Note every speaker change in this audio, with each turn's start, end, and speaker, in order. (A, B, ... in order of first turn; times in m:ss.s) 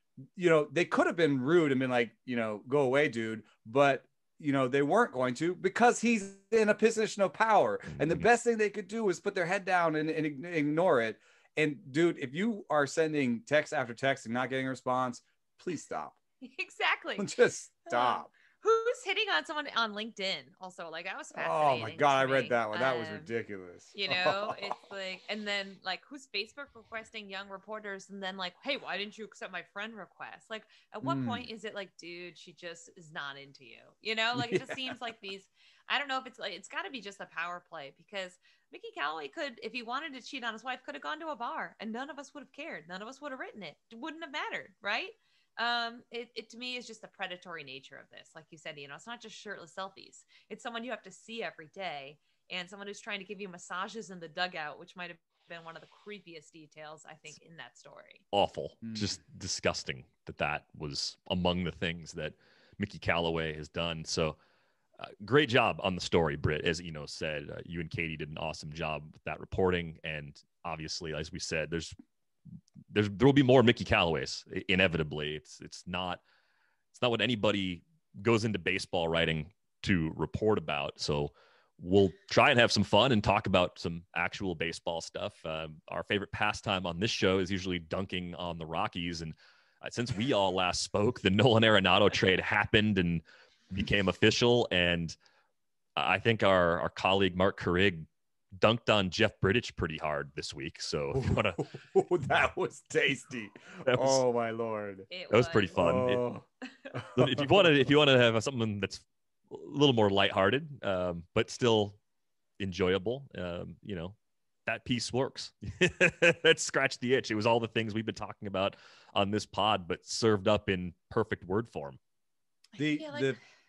0:00.4-0:16.2 A
0:07.9-0:08.2 B
0:16.4-0:17.3 C
0:17.2-0:18.3 A
0:17.9-0:23.3 C
0:21.3-0:24.7 A
0:23.9-0:58.2 C
0:31.0-0:31.5 A
0:34.3-0:34.9 A
0:58.3-1:04.4 B
0:58.8-0:59.2 A
1:05.0-1:12.0 B
1:12.9-1:16.2 B
1:16.9-1:35.2 B
1:36.0-1:41.6 B
1:41.1-1:45.1 A
1:43.8-1:44.2 B
1:45.1-1:45.8 C
1:45.3-1:46.2 B
1:45.7-1:47.7 A
1:47.1-1:52.0 B
1:52.6-2:02.0 B
2:02.7-2:03.4 C
2:02.8-2:03.4 A